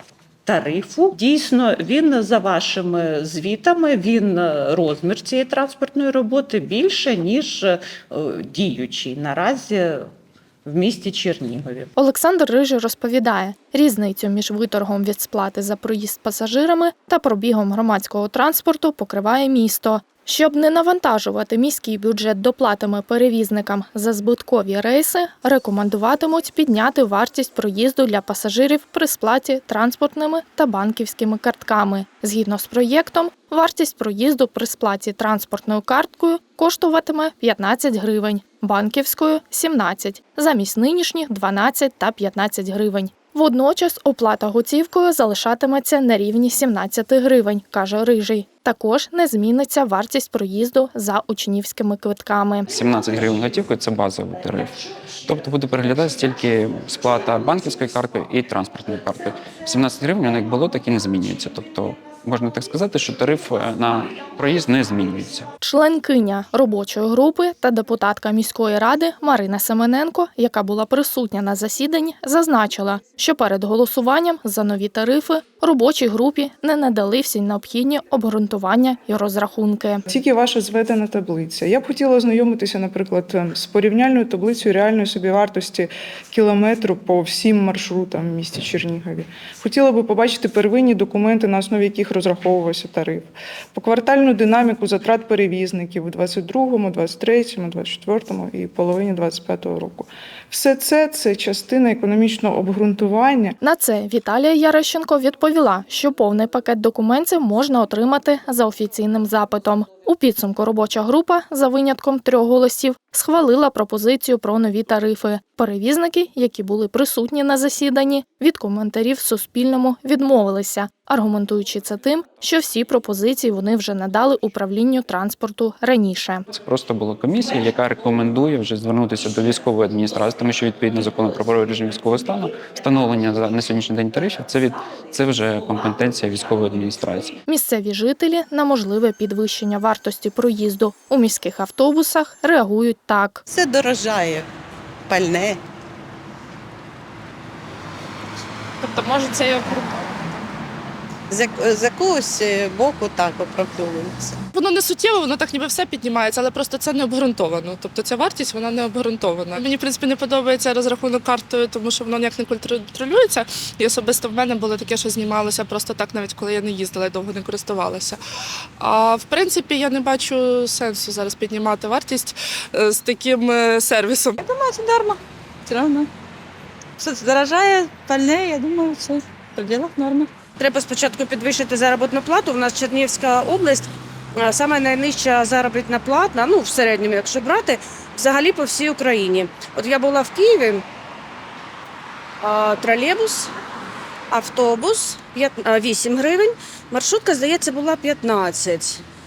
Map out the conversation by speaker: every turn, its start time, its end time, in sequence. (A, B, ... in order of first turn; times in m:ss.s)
0:00.5-0:10.1 A
0:10.7-0:11.9 A
0:12.0-0:52.7 B
0:52.7-0:54.7 C
0:55.2-1:05.5 C
1:05.6-1:20.0 B
1:20.1-1:43.6 D
1:43.6-2:06.5 B
2:06.5-2:17.4 C
2:17.5-2:23.4 B
2:23.5-2:24.5 E
2:25.1-2:25.6 E
2:28.8-2:30.4 F
2:31.3-2:34.4 E
2:34.6-2:48.2 F
2:48.8-2:54.4 F
2:54.4-2:56.1 G
2:57.0-3:00.3 G
3:00.6-3:10.8 H
3:12.4-3:13.5 H
3:14.3-3:19.0 H